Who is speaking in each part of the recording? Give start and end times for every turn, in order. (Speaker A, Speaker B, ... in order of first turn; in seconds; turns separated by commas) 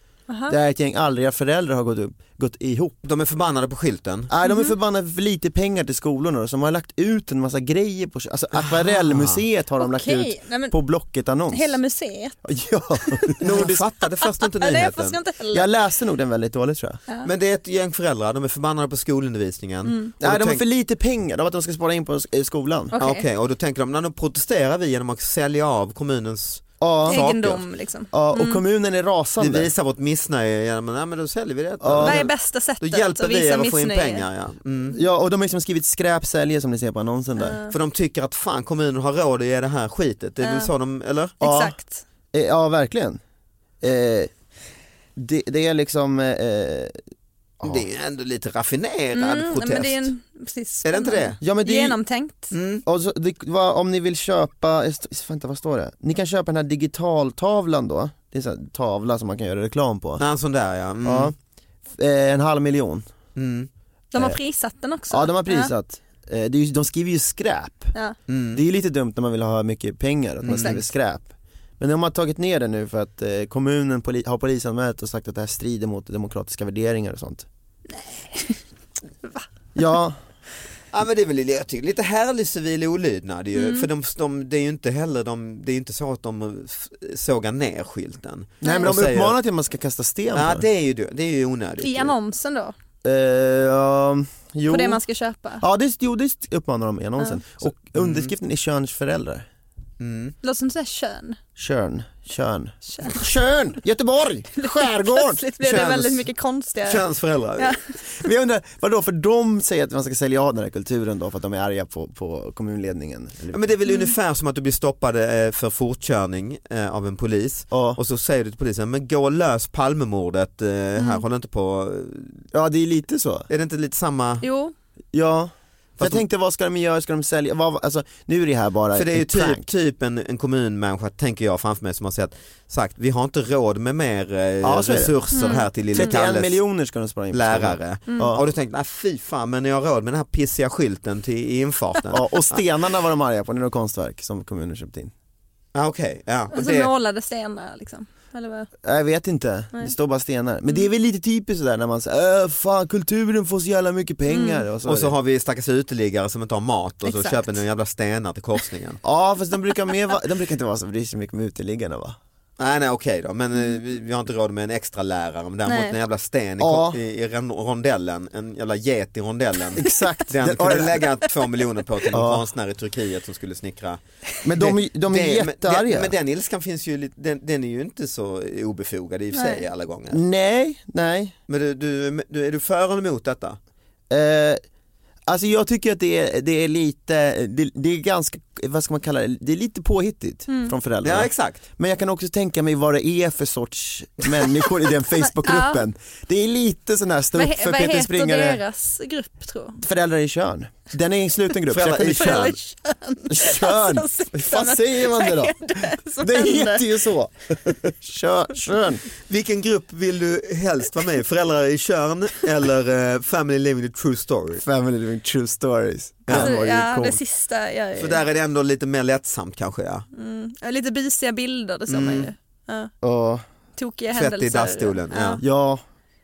Speaker A: 0.3-0.6, Speaker B: 0.5-3.0, Speaker C: 3.0-4.3, Speaker B: 4.3-11.8, Speaker A: 4.4-4.7, Speaker C: 8.6-9.4, Speaker A: 9.8-10.8, Speaker A: 11.5-12.4, Speaker B: 12.4-13.8, Speaker A: 13.2-13.8, Speaker C: 13.4-15.2, Speaker A: 14.6-15.7, Speaker B: 15.5-17.0, Speaker C: 17.2-20.6, Speaker A: 19.9-20.1, Speaker B: 20.2-22.9, Speaker A: 22.9-23.2, Speaker C: 22.9-27.6, Speaker B: 26.8-27.2, Speaker A: 27.1-28.6, Speaker B: 28.1-29.7, Speaker C: 29.4-35.0, Speaker B: 31.8-32.2, Speaker A: 32.0-34.2, Speaker B: 34.9-37.6, Speaker A: 37.4-37.7, Speaker C: 37.7-41.3, Speaker A: 40.4-40.7, Speaker A: 41.4-42.0, Speaker B: 41.4-41.8, Speaker B: 42.3-43.2, Speaker B: 43.8-44.3, Speaker B: 45.1-47.0, Speaker B: 47.6-47.9, Speaker C: 47.6-50.1, Speaker A: 49.1-52.5, Speaker C: 50.8-51.4, Speaker B: 51.4-52.0, Speaker C: 52.5-52.8, Speaker B: 52.8-60.2, Speaker C: 60.2-61.3, Speaker B: 61.0-61.3, Speaker B: 61.9-63.0, Speaker C: 63.4-63.7, Speaker A: 64.1-65.7, Speaker B: 65.1-67.9, Speaker C: 68.3-68.6, Speaker B: 68.5-77.5, Speaker C: 70.4-70.8, Speaker A: 77.9-78.6, Speaker B: 79.7-80.2, Speaker C: 80.9-89.3, Speaker A: 83.5-83.9, Speaker A: 88.6-88.9, Speaker B: 88.6-90.7, Speaker C: 90.3-92.1, Speaker A: 91.8-92.7, Speaker B: 93.0-95.0, Speaker A: 94.7-95.6, Speaker B: 95.6-99.5, Speaker C: 97.9-98.3, Speaker C: 100.0-100.3, Speaker A: 100.4-101.4, Speaker B: 101.6-106.2, Speaker A: 102.9-103.3, Speaker A: 104.6-107.8, Speaker C: 105.7-106.1, Speaker C: 106.8-107.8, Speaker B: 108.0-113.6, Speaker C: 113.5-122.5, Speaker A: 113.8-114.1, Speaker B: 117.7-118.0, Speaker A: 121.0-121.2, Speaker B: 122.5-123.5, Speaker C: 123.5-124.5, Speaker A: 124.4-124.7, Speaker B: 125.1-129.7, Speaker C: 126.0-126.2, Speaker C: 128.9-136.6, Speaker B: 134.6-138.4, Speaker A: 135.3-136.2, Speaker C: 137.3-142.6, Speaker B: 142.1-145.1, Speaker C: 145.7-146.9, Speaker A: 146.5-148.7, Speaker B: 148.8-155.1, Speaker A: 154.3-154.7, Speaker C: 154.8-159.0, Speaker A: 157.0-157.6, Speaker B: 159.0-162.2, Speaker C: 162.6-180.2, Speaker A: 165.7-165.9, Speaker B: 166.6-167.0, Speaker B: 169.8-171.1, Speaker B: 172.1-172.5, Speaker B: 174.4-176.1, Speaker A: 179.3-179.6, Speaker B: 180.1-181.3, Speaker C: 181.5-183.6, Speaker B: 184.1-184.6, Speaker B: 185.3-198.6, Speaker A: 190.5-190.7, Speaker C: 191.0-191.6, Speaker A: 195.4-195.8, Speaker A: 197.3-199.8, Speaker B: 199.8-202.6, Speaker C: 201.7-202.6, Speaker A: 201.9-207.0, Speaker B: 203.3-209.0, Speaker C: 209.2-214.6, Speaker B: 214.6-217.2, Speaker C: 216.2-216.5, Speaker A: 216.3-218.2, Speaker C: 218.0-220.1, Speaker A: 220.1-222.9, Speaker C: 221.9-222.3, Speaker B: 223.0-223.4, Speaker A: 223.8-225.4, Speaker C: 224.1-225.4, Speaker B: 225.4-225.8